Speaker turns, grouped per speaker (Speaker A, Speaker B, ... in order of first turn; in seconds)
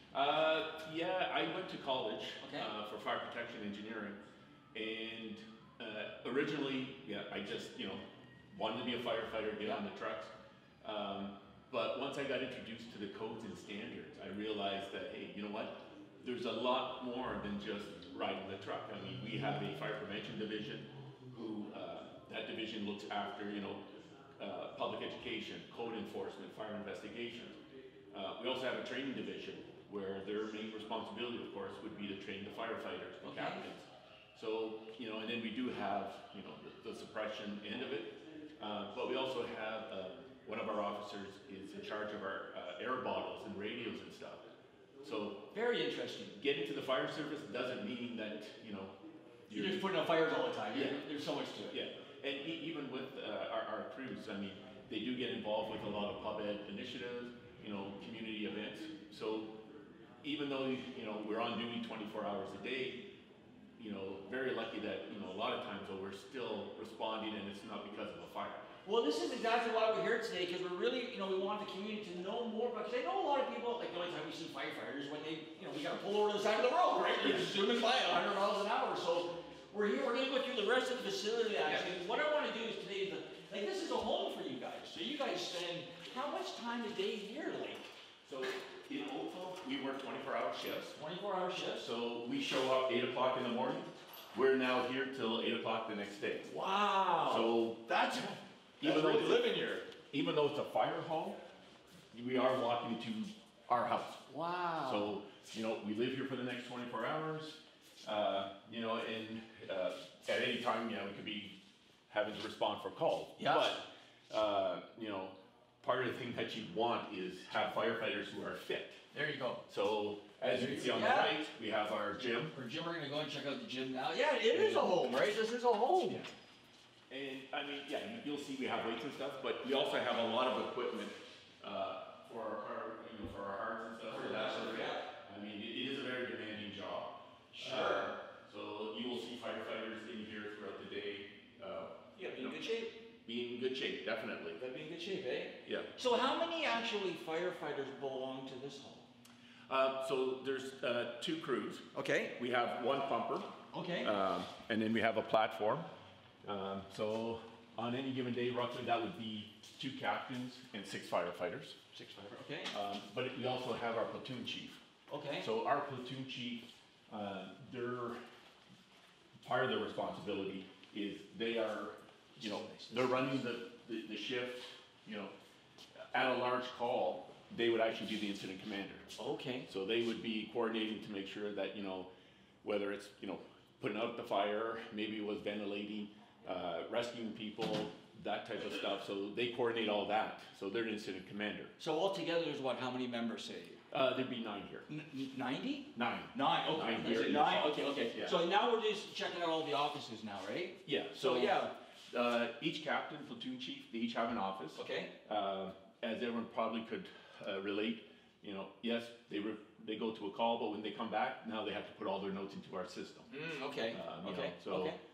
Speaker A: 0.1-27.6, 28.1-44.4, 45.0-45.5, 46.4-48.9, 49.5-49.9, 50.7-51.0, 51.7-59.6, 60.2-63.1, 63.8-68.7, 88.2-91.0, 91.8-96.5, 97.2-97.8, 98.8-101.4, 102.1-104.3, 104.8-119.0, 119.7-122.5, 124.5-125.0, 127.1-142.6, 143.2-144.6, 145.6-145.9, 149.7-151.8, 152.4-155.9, 156.4-161.8, 162.7-164.8, 165.4-168.2, 169.4-175.3, 176.1-179.1, 179.7-182.1, 182.6-191.7, 193.9-194.9, 195.9-198.4, 200.8-213.3, 213.9-214.9
Speaker B: 2.4-2.7, 33.2-33.6, 45.5-46.4, 49.5-51.8, 68.8-87.9, 90.9-91.9, 96.4-99.9, 104.3-105.1, 113.4-113.8, 119.1-119.6, 120.5-121.4, 122.5-126.3, 134.1-135.1, 137.5-138.2, 142.1-143.0, 144.5-149.1, 151.9-152.4, 153.7-154.1, 161.9-162.7, 165.1-165.5, 172.4-173.4, 179.2-179.7, 191.8-193.8, 194.9-201.7, 204.7-205.1, 213.3-215.0